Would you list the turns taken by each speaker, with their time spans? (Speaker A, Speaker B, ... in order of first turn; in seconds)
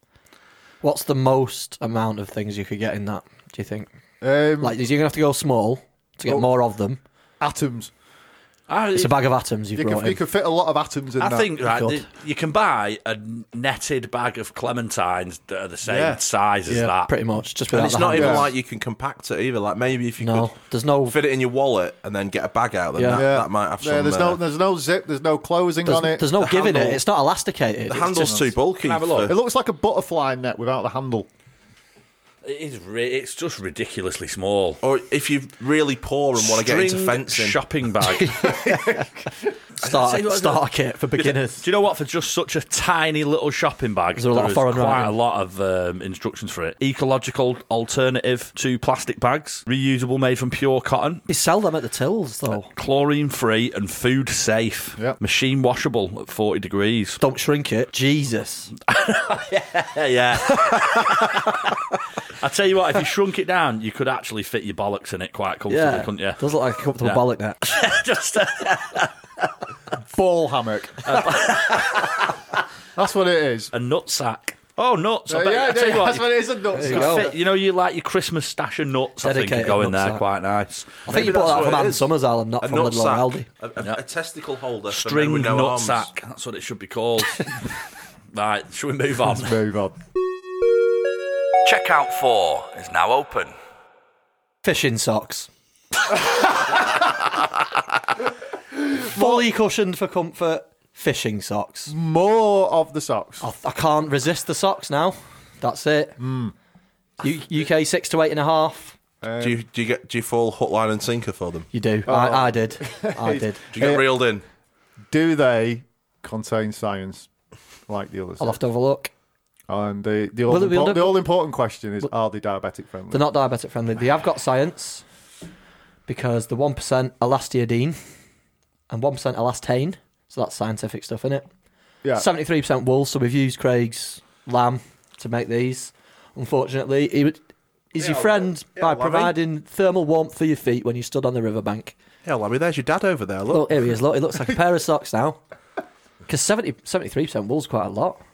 Speaker A: 0.8-3.9, 4.6-7.0, 8.9-10.2, 11.7-12.0, 16.7-18.5, 20.2-21.2, 23.0-23.3, 25.9-28.5, 39.8-41.6, 44.2-45.1, 51.3-52.7, 57.2-58.7, 60.5-61.7, 65.7-67.6, 76.7-77.3, 79.2-80.2, 81.1-83.5, 94.6-95.5, 98.9-101.9, 103.4-106.2, 107.2-109.0, 111.7-113.6, 118.4-119.1, 120.5-121.3, 123.1-125.0, 126.1-128.0, 128.9-131.5, 132.2-137.4, 137.9-141.9, 143.5-145.4, 146.3-148.2
Speaker B: 4.2-4.8, 7.4-7.9, 9.8-11.8, 15.8-16.2, 18.1-18.5, 23.1-26.4, 28.2-28.5, 29.2-31.3, 38.2-39.4, 70.1-71.2, 73.0-73.7, 75.3-77.4, 89.3-90.0, 99.0-99.4, 101.9-103.5, 106.2-106.5, 109.2-109.6, 112.1-114.2, 115.1-117.3, 117.9-118.6, 119.7-123.3
Speaker C: 8.7-9.2, 11.2-17.1, 28.8-29.3, 32.4-34.8, 36.4-38.6, 39.8-40.7, 41.2-51.2, 52.7-57.2, 58.9-61.7, 62.4-66.4, 67.0-69.5, 71.0-72.4, 73.7-81.1, 84.9-87.7, 88.3-89.6, 91.6-93.5
Speaker D: 17.7-24.4, 26.4-27.0, 27.9-29.4, 34.8-37.6, 81.1-86.1, 109.4-111.7, 113.7-114.4, 138.0-139.4, 142.2-143.7